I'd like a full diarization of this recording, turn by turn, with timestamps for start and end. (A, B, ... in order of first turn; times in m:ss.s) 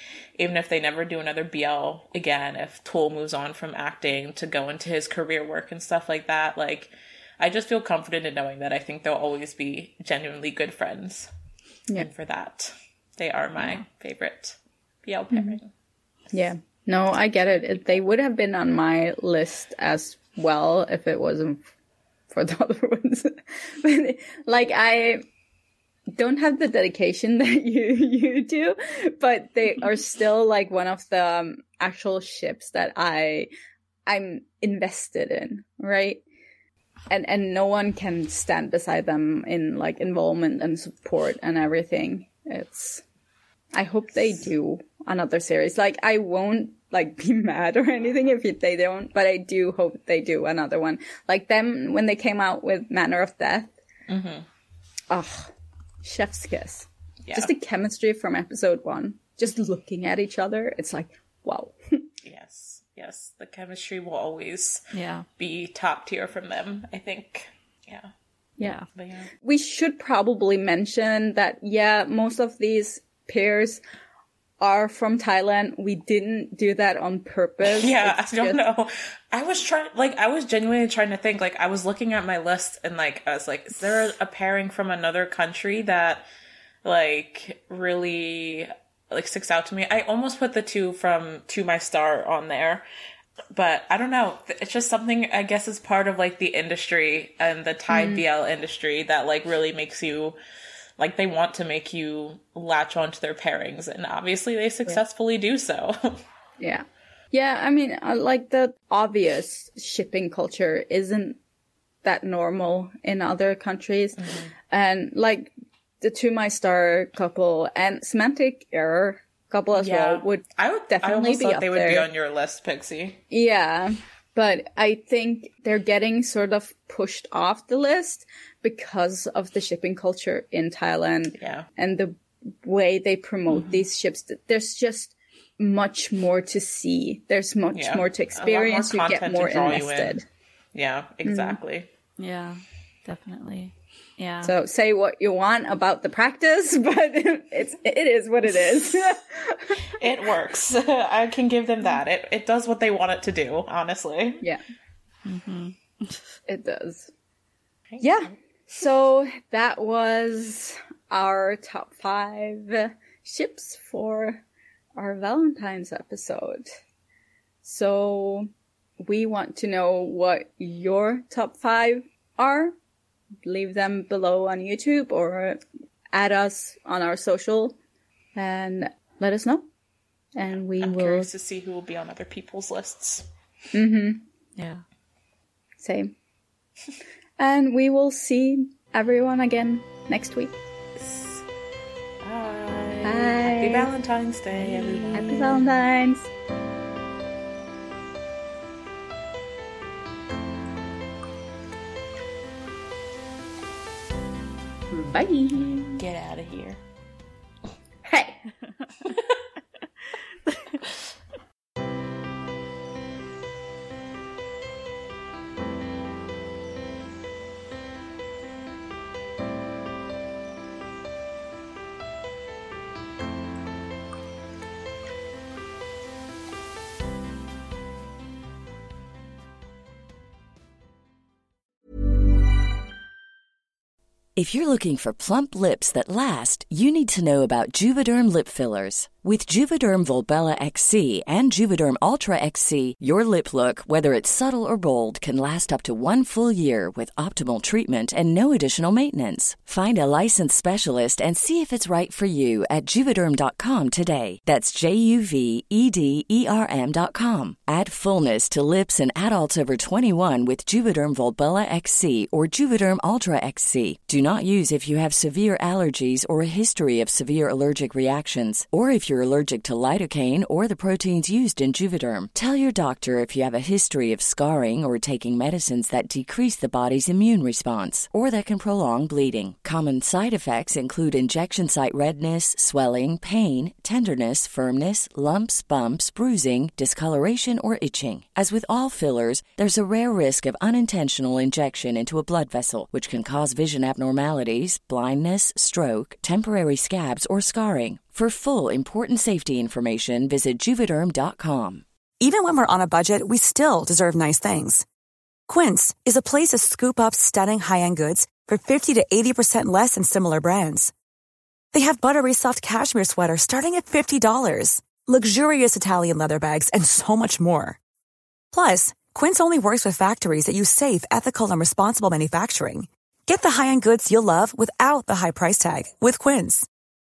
0:00.4-0:11.3 A
0:11.9-0:15.7 A
0:15.3-0:15.6 B
0:16.3-0:21.6 B
0:22.3-0:25.2 B
0:26.1-0:33.5 B
0:34.0-0:36.2 B
0:37.1-0:43.0 B
0:43.7-0:53.7 B
0:54.1-0:54.4 A
0:55.1-0:55.5 B
0:56.0-1:02.0 B
0:57.2-0:57.5 A
1:02.2-1:04.8 A
1:04.9-1:05.2 C
1:05.4-1:08.1 A
1:08.9-1:09.3 A
1:09.4-1:13.8 B
1:14.6-1:18.6 B
1:17.6-1:26.2 A
1:26.8-1:32.8 A
1:33.5-1:40.4 A
1:37.9-1:38.2 B
1:41.0-1:46.2 A
1:46.6-1:51.4 B
1:52.0-2:02.1 B
1:54.2-1:54.5 A
1:59.7-2:03.2 A
2:03.3-2:20.2 B
2:11.4-2:11.6 A
2:13.5-2:13.8 C
2:17.7-2:20.2 A
2:20.7-2:21.9 A
2:21.2-2:21.6 B
2:22.2-2:24.5 C
2:24.4-2:29.8 B
2:30.0-2:34.4 A
2:35.2-2:36.2 C
2:36.5-2:37.1 B
2:38.0-2:44.4 B
2:45.0-2:46.7 B
2:47.6-2:48.5 B
2:49.0-2:52.7 B
2:53.4-2:55.6 B
2:56.1-2:57.7 B
2:58.3-2:59.6 B
3:00.4-3:01.3 B
3:00.8-3:03.2 A
3:03.7-3:04.2 B
3:04.6-3:04.8 C
3:05.8-3:06.1 B
3:07.4-3:10.6 B
3:11.0-3:11.4 A
3:12.2-3:15.7 A
3:13.0-3:13.9 B
3:14.5-3:15.6 C
3:15.1-3:16.3 B
3:24.9-3:26.0 B
3:26.0-3:26.8 A
3:28.0-3:28.4 B
3:30.4-3:30.8 C
3:54.4-5:01.8 D
5:02.2-5:04.8 E
5:05.5-5:10.9 E
5:11.7-5:17.8 E
5:18.5-5:26.7 E